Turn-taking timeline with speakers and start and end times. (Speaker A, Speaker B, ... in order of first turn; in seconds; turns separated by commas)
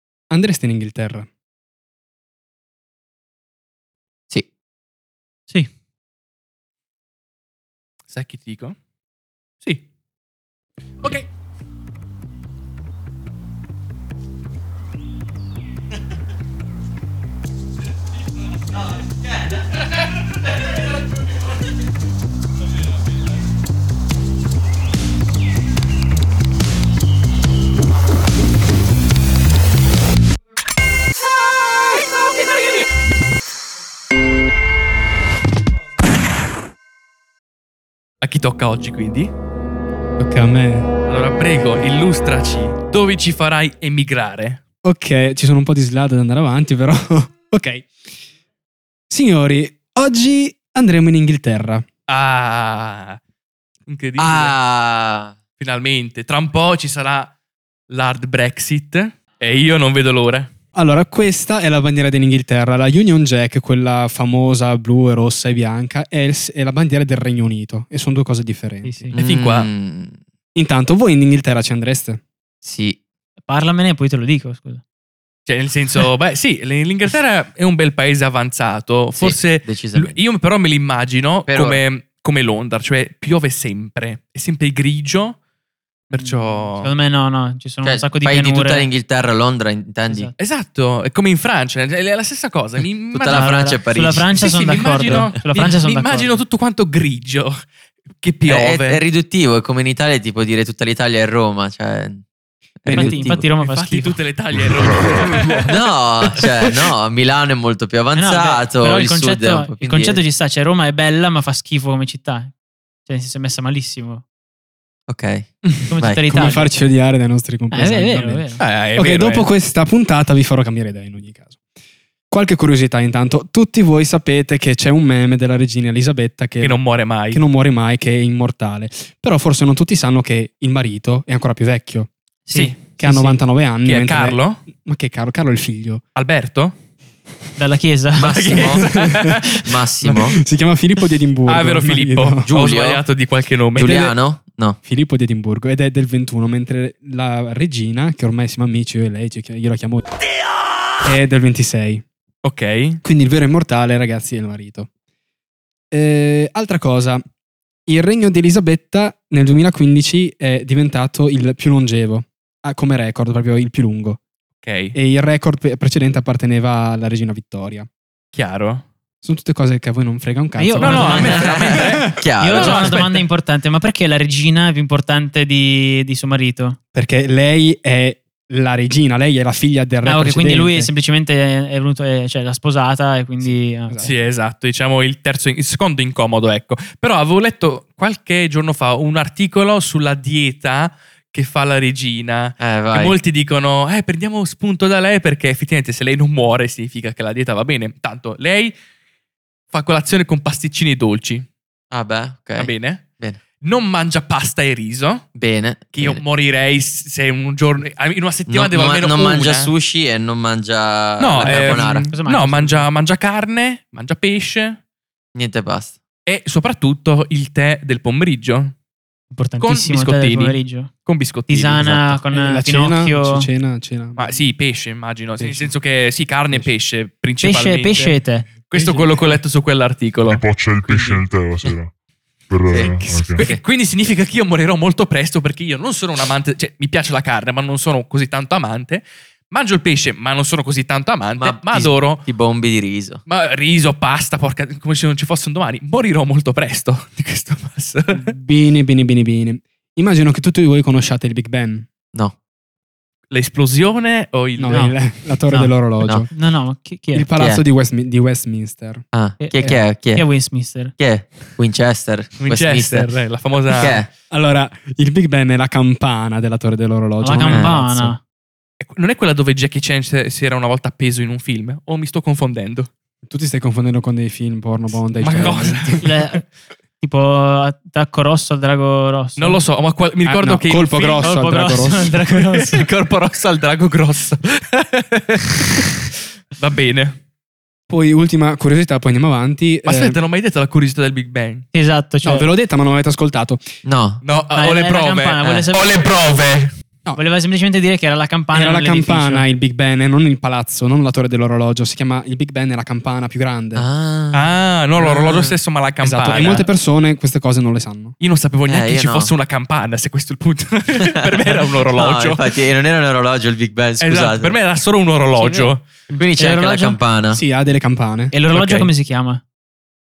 Speaker A: 0.3-1.3, Speaker B: 8.1-8.8, Speaker B: 38.2-39.3, Speaker A: 40.2-40.9, Speaker B: 41.1-44.6, Speaker A: 44.8-47.9, Speaker A: 49.1-51.9, Speaker B: 52.1-53.2, Speaker B: 53.9-54.5, Speaker C: 54.2-55.3, Speaker B: 55.6-57.3, Speaker B: 57.9-60.5, Speaker A: 60.7-69.1, Speaker D: 68.8-69.2, Speaker C: 69.1-70.2, Speaker B: 69.2-69.7, Speaker A: 70.5-72.2, Speaker C: 72.6-73.0, Speaker D: 73.4-74.8, Speaker B: 75.5-85.4, Speaker C: 79.2-80.2, Speaker C: 81.5-81.8, Speaker B: 86.1-86.9, Speaker D: 86.1-88.9, Speaker C: 87.8-90.3, Speaker D: 90.1-90.3, Speaker B: 90.4-93.5, Speaker C: 93.1-94.4, Speaker D: 93.2-96.3, Speaker B: 94.3-97.6, Speaker B: 98.2-99.0, Speaker C: 98.5-102.2, Speaker C: 102.8-103.2, Speaker A: 102.8-103.5, Speaker D: 102.9-104.2, Speaker B: 103.4-105.7, Speaker E: 104.8-105.1, Speaker C: 105.7-110.2, Speaker D: 108.1-112.5, Speaker D: 113.0-114.2, Speaker C: 115.1-116.2, Speaker D: 115.8-116.7, Speaker A: 116.3-121.6, Speaker D: 117.7-118.6, Speaker B: 118.6-119.5, Speaker A: 122.3-126.8, Speaker B: 126.6-127.4, Speaker A: 127.3-132.1, Speaker D: 132.5-133.4, Speaker B: 132.5-132.8, Speaker A: 133.0-136.0, Speaker B: 133.8-134.6, Speaker B: 136.1-136.8, Speaker D: 137.6-138.6, Speaker C: 138.2-140.4, Speaker A: 138.4-139.5, Speaker B: 138.4-139.7, Speaker A: 140.1-142.5, Speaker B: 141.4-144.1, Speaker C: 142.5-143.0, Speaker C: 143.8-144.8, Speaker A: 143.8-144.2, Speaker A: 144.8-150.1, Speaker A: 151.0-152.0, Speaker B: 152.4-153.0, Speaker A: 153.0-154.9, Speaker A: 155.9-157.2, Speaker A: 157.9-164.2, Speaker B: 164.6-164.9, Speaker A: 164.9-167.9, Speaker B: 168.3-168.8, Speaker A: 169.2-172.1, Speaker D: 170.6-176.8, Speaker B: 170.8-173.2, Speaker C: 171.2-173.0, Speaker A: 176.9-180.9, Speaker D: 180.0-184.1, Speaker A: 183.4-184.2, Speaker B: 184.0-198.8, Speaker C: 192.6-193.2, Speaker B: 199.7-201.4, Speaker C: 201.9-203.4, Speaker B: 202.6-203.0, Speaker B: 203.6-205.2, Speaker C: 205.3-206.2, Speaker B: 205.9-209.7, Speaker C: 208.5-212.1, Speaker B: 211.2-214.8, Speaker D: 211.4-212.9, Speaker C: 215.3-215.9, Speaker B: 216.2-218.7, Speaker D: 219.3-220.9, Speaker B: 219.6-222.2, Speaker D: 221.5-223.5, Speaker A: 222.3-224.5, Speaker B: 224.2-231.3, Speaker A: 225.4-225.7, Speaker D: 227.4-228.5, Speaker A: 228.7-229.2, Speaker E: 230.2-231.9, Speaker E: 232.5-233.5, Speaker C: 232.7-233.6, Speaker A: 232.8-233.3, Speaker B: 233.3-242.2, Speaker C: 241.3-243.2, Speaker B: 243.2-248.3, Speaker A: 248.1-251.9, Speaker B: 253.3-254.9, Speaker A: 254.6-256.3, Speaker D: 254.7-255.8, Speaker D: 256.3-257.3, Speaker A: 257.1-259.1, Speaker C: 257.4-257.6, Speaker C: 259.1-260.3, Speaker D: 259.4-260.9, Speaker C: 260.9-263.1, Speaker B: 262.4-264.1, Speaker C: 263.7-264.1, Speaker A: 264.3-268.1, Speaker D: 267.2-268.2, Speaker C: 267.5-267.8, Speaker B: 268.8-272.9, Speaker A: 273.3-276.1, Speaker B: 275.2-276.1, Speaker D: 276.0-276.4, Speaker D: 277.0-279.6, Speaker B: 279.4-285.9, Speaker A: 280.2-282.2, Speaker D: 281.2-282.8, Speaker B: 286.6-287.2, Speaker A: 287.9-290.2, Speaker B: 289.8-291.7, Speaker D: 291.7-292.5, Speaker A: 292.2-293.6, Speaker C: 293.8-294.2, Speaker B: 294.2-296.7, Speaker D: 294.5-295.9, Speaker D: 297.1-299.4, Speaker A: 298.5-303.9, Speaker C: 303.8-305.6, Speaker B: 304.3-306.6, Speaker A: 306.0-308.2, Speaker D: 306.3-306.6, Speaker B: 308.2-312.5, Speaker C: 308.7-309.3, Speaker C: 311.0-314.6, Speaker B: 314.0-316.0, Speaker D: 315.3-317.0, Speaker C: 316.2-317.4, Speaker A: 317.3-318.3, Speaker D: 318.3-319.4, Speaker B: 318.5-318.9